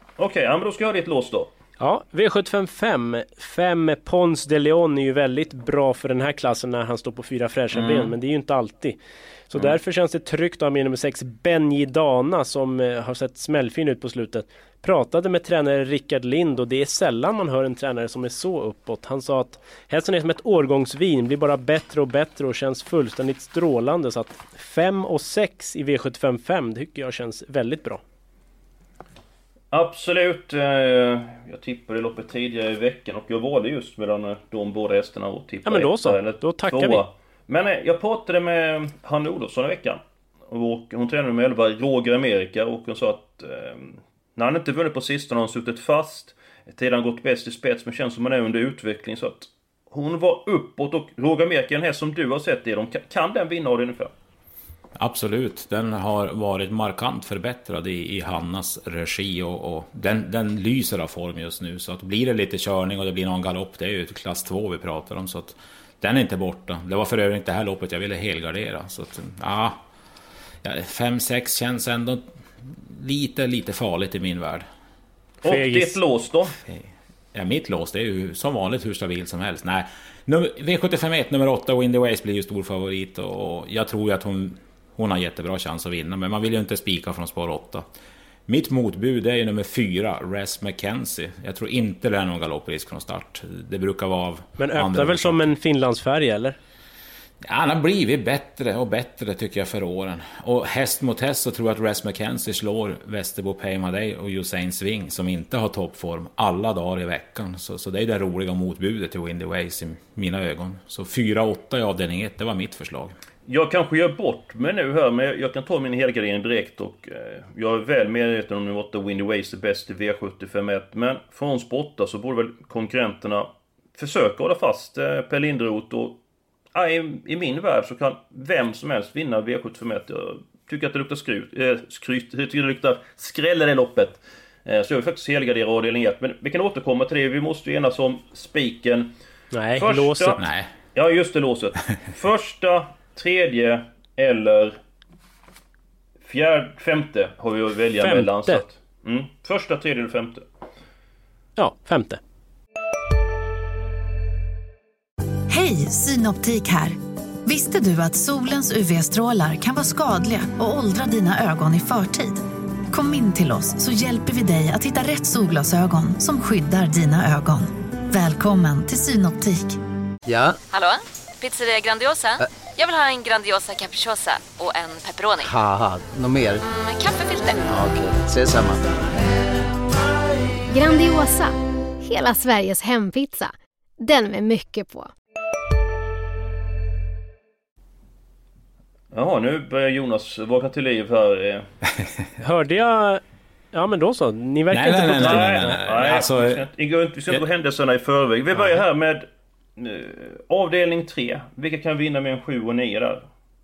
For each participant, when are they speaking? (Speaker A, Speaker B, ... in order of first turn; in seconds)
Speaker A: 0.2-1.5, 7.7-8.1, 29.7-54.1, 75.4-76.6, 113.5-126.2, 126.7-139.1, 139.8-144.8, 146.2-150.4, 189.1-191.7, 195.2-203.3
Speaker B: 1.8-9.0, 9.5-28.0, 35.6-37.0, 75.5-76.0, 94.6-96.6, 139.5-140.4, 148.0-148.6, 151.6-152.2, 192.4-193.2, 193.7-195.8
Speaker C: 55.0-69.8, 70.6-74.7, 76.7-87.9, 88.5-95.4, 97.4-113.2, 140.4-140.7, 194.7-196.6
Speaker D: 155.5-169.8
Speaker E: 170.3-170.6, 175.4-176.6, 177.7-178.8
Speaker F: 170.7-175.5, 176.6-177.7
Speaker G: 180.7-185.1